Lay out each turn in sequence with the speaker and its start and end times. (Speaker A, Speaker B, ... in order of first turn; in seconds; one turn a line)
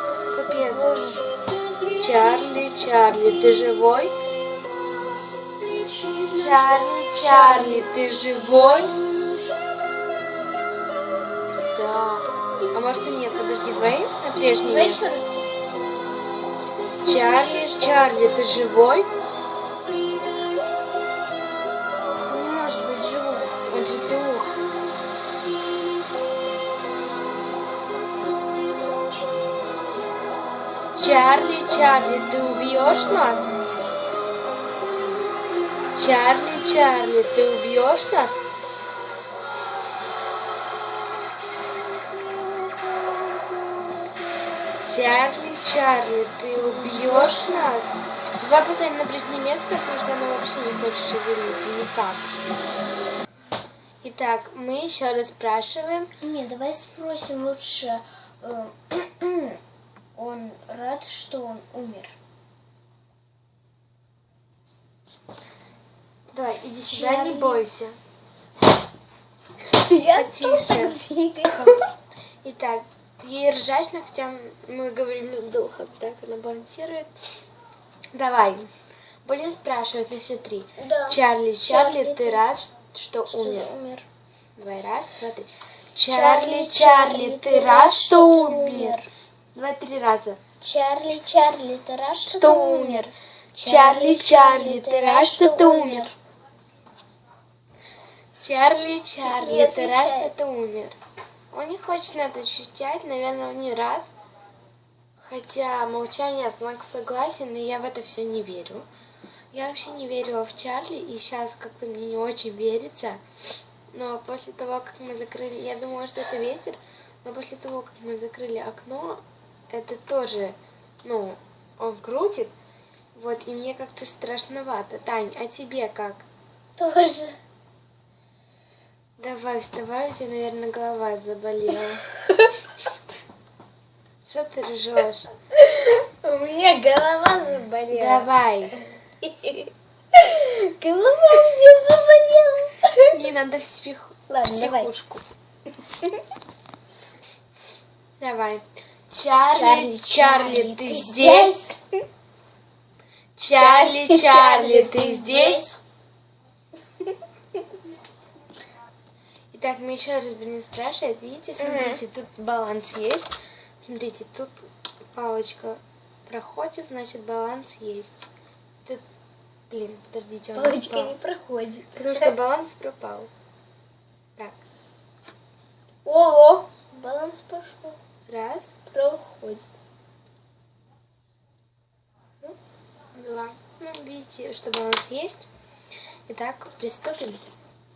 Speaker A: 0.3-1.2
Speaker B: 0.5-1.3
Speaker A: 1.9-4.2
Speaker B: 5.9-9.1
Speaker A: 6.3-9.0
Speaker A: 11.7-15.0
Speaker B: 14.7-15.5
Speaker A: 17.0-19.1
Speaker B: 22.3-23.6
Speaker A: 23.7-24.5
Speaker A: 30.9-33.5
Speaker A: 36.0-38.4
Speaker A: 44.8-52.3
Speaker B: 46.5-48.0
Speaker A: 54.0-56.1
Speaker B: 56.2-59.6
Speaker B: 60.2-62.1
Speaker A: 66.3-68.0
Speaker B: 66.9-67.7
Speaker B: 69.7-71.8
Speaker A: 70.2-71.8
Speaker A: 72.4-77.1
Speaker A: 78.1-78.7
Speaker A: 79.2-83.7
Speaker B: 80.8-82.6
Speaker B: 83.3-84.1
Speaker A: 84.6-89.0
Speaker B: 86.1-89.1
Speaker A: 89.5-90.4
Speaker B: 90.6-96.1
Speaker A: 92.2-93.1
Speaker A: 93.7-96.1
Speaker A: 98.4-101.0
Speaker B: 99.2-100.3
Speaker A: 101.5-104.1
Speaker A: 105.2-108.9
Speaker A: 109.5-113.2
Speaker A: 113.9-122.5
Speaker A: 123.2-126.2
Speaker B: 126.8-127.4
Speaker A: 129.2-132.1
Speaker A: 134.2-135.3
Speaker B: 135.6-138.3
Speaker A: 137.9-138.8
Speaker B: 139.2-143.2
Speaker A: 143.1-145.2
Speaker B: 144.3-144.9
Speaker A: 148.2-151.6
Speaker B: 149.5-151.8
Speaker A: 153.4-155.7
Speaker B: 153.5-155.8
Speaker A: 159.5-163.3
Speaker B: 161.6-162.0
Speaker A: 163.8-168.1
Speaker A: 169.7-171.2
Speaker B: 170.6-172.3
Speaker A: 171.9-173.3
Speaker B: 176.1-178.0
Speaker A: 178.3-178.8
Speaker B: 178.9-179.6
Speaker A: 183.1-185.5
Speaker A: 186.3-187.5